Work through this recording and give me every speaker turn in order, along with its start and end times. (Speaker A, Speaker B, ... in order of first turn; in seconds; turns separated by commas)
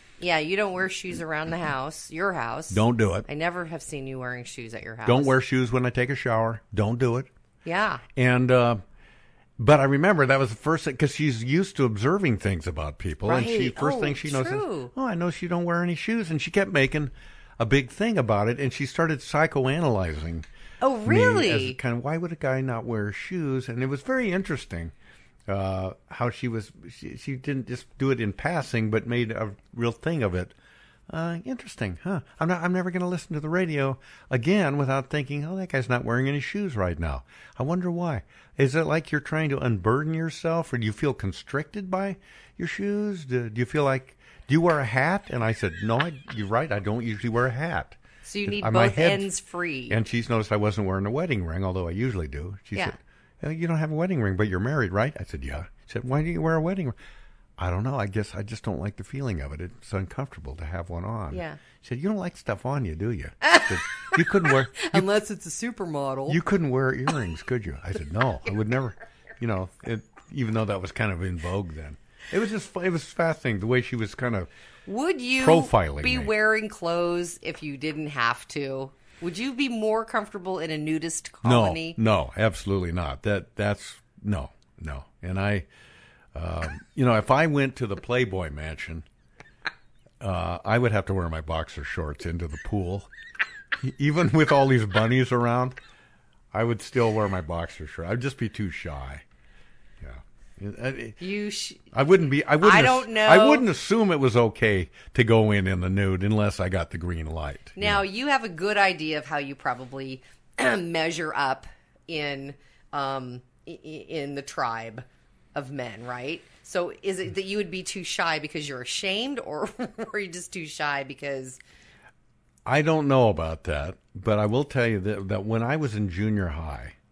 Speaker A: 0.2-5.3, Speaker B: 2.7-3.3, Speaker B: 5.1-7.3, Speaker A: 7.7-8.0, Speaker B: 8.2-8.8, Speaker B: 9.6-20.5, Speaker A: 13.2-14.9, Speaker A: 20.8-21.8, Speaker B: 21.0-24.9, Speaker B: 25.5-30.6, Speaker B: 31.1-49.3, Speaker A: 48.2-50.0, Speaker B: 49.9-57.0, Speaker B: 57.6-65.1, Speaker A: 61.3-61.6, Speaker A: 63.5-64.2, Speaker A: 64.8-66.4, Speaker B: 66.3-74.5, Speaker A: 74.9-82.0, Speaker B: 75.4-76.3, Speaker B: 81.4-85.7, Speaker B: 86.3-89.1, Speaker B: 90.2-93.1, Speaker B: 93.8-95.8, Speaker B: 96.5-99.2, Speaker B: 100.0-101.2, Speaker A: 101.2-101.9, Speaker B: 101.9-108.0, Speaker A: 102.6-103.7, Speaker A: 107.8-121.6, Speaker B: 122.7-127.0